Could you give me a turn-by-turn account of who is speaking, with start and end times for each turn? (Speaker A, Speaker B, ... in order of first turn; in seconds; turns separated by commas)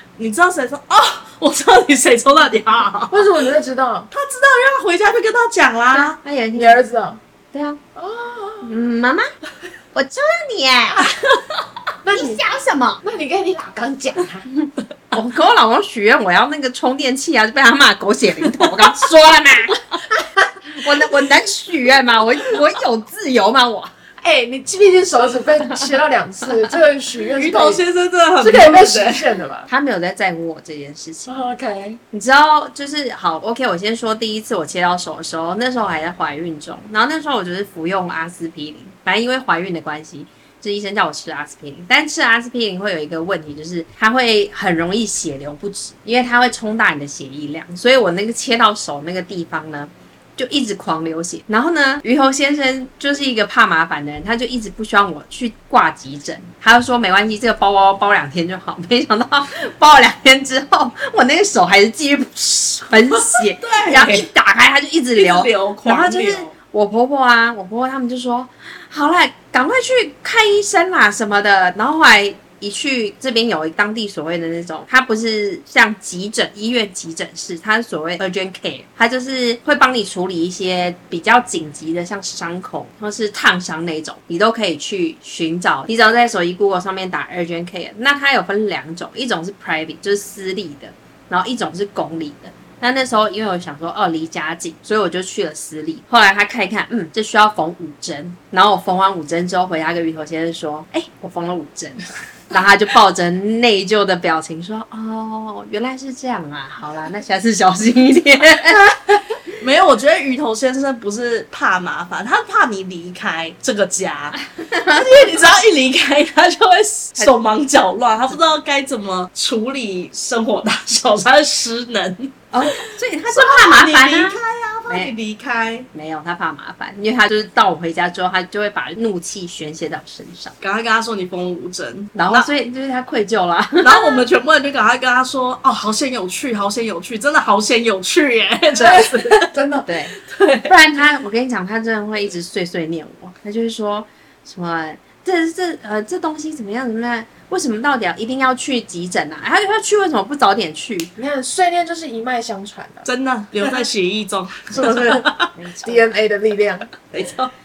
Speaker A: 0.2-3.3, Speaker B: 3.1-4.1, Speaker A: 4.1-6.2, Speaker C: 5.9-6.8, Speaker B: 6.5-7.2, Speaker C: 7.5-7.8, Speaker B: 7.9-8.7, Speaker C: 8.6-9.3, Speaker C: 9.9-11.1, Speaker B: 12.0-12.4, Speaker C: 12.1-13.0, Speaker B: 13.0-14.4, Speaker C: 15.1-19.8, Speaker A: 18.4-18.9, Speaker C: 20.7-23.9, Speaker B: 24.2-27.8, Speaker A: 27.3-29.3, Speaker B: 28.4-29.7, Speaker C: 29.7-31.3, Speaker B: 31.2-32.0, Speaker C: 32.1-108.8, Speaker A: 63.1-64.3, Speaker A: 65.2-66.5, Speaker A: 109.5-125.9, Speaker C: 114.6-115.1, Speaker C: 122.5-125.1, Speaker C: 125.9-130.6, Speaker A: 130.6-132.5, Speaker C: 132.1-134.2, Speaker A: 133.8-139.5, Speaker B: 138.8-139.9, Speaker C: 139.9-140.1, Speaker A: 140.2-140.7, Speaker C: 140.7-151.1, Speaker B: 151.2-153.1, Speaker A: 153.1-155.5, Speaker B: 154.7-155.3, Speaker C: 155.6-156.1, Speaker B: 155.8-156.9, Speaker A: 157.1-157.5